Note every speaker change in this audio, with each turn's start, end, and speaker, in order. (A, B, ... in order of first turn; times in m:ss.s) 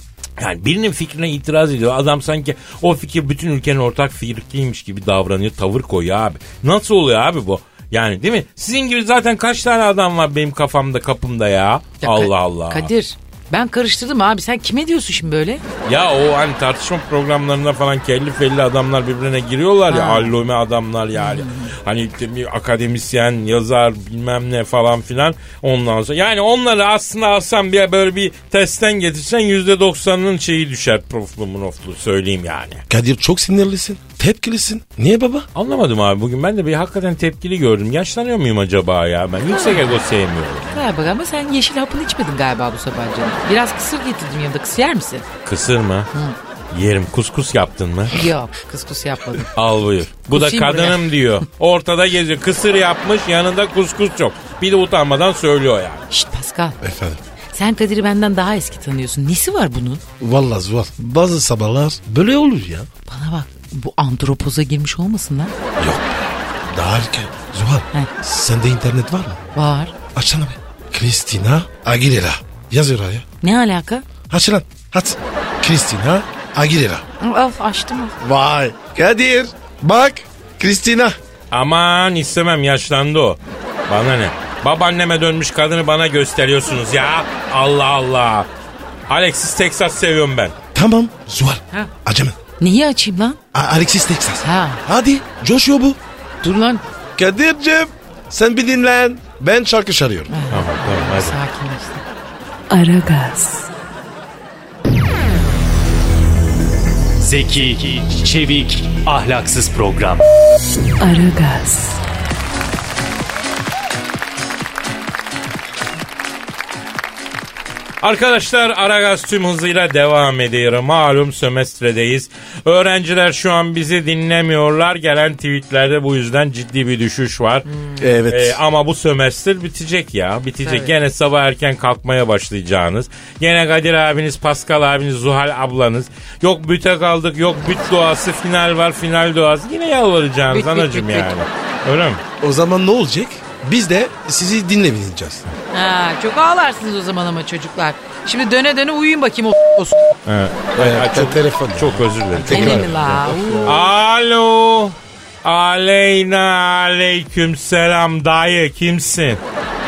0:00.4-0:12.9 A
0:12.0-0:15.6 B
0:15.9-0:32.8 A
0:19.9-0:20.3 B
0:21.2-0:21.7 B
0:32.9-0:35.5 C
0:35.6-0:40.8 A
0:39.5-0:39.9 B
0:40.7-0:45.3 B
0:45.4-0:46.1 A
0:46.7-0:48.2 A
0:48.1-0:49.5 B
0:49.5-0:56.0 A
0:50.3-0:51.1 B
0:56.1-0:56.8 B
0:56.8-0:57.2 C
0:57.5-1:00.0 B
1:00.2-1:02.9 C
1:03.1-1:05.5 B
1:05.8-1:09.4 C
1:09.5-1:10.0 B
1:10.1-1:13.2 C
1:13.4-1:14.0 B
1:14.3-1:17.0 C
1:17.2-1:18.2 B
1:18.2-1:21.2 C
1:21.5-1:28.5 A
1:29.1-1:30.6 A
1:30.7-1:32.4 C
1:32.6-1:33.4 B
1:33.5-1:36.0 C
1:34.4-1:34.8 B
1:36.4-1:36.8 B
1:37.2-1:40.3 C
1:40.3-1:42.0 B
1:40.5-1:41.4 A
1:42.7-1:43.7 D
1:47.2-1:50.2 E
1:51.0-1:52.0 D
1:58.0-2:07.7 A
2:07.7-2:08.0 B
2:08.0-2:08.6 C
2:08.3-2:22.2 A
2:10.6-2:10.9 B
2:20.5-2:21.3 B
2:22.4-2:25.4 C
2:25.7-2:30.0 B
2:30.3-2:33.0 A
2:30.8-2:33.9 C
2:32.4-2:33.8 B
2:33.6-2:39.4 A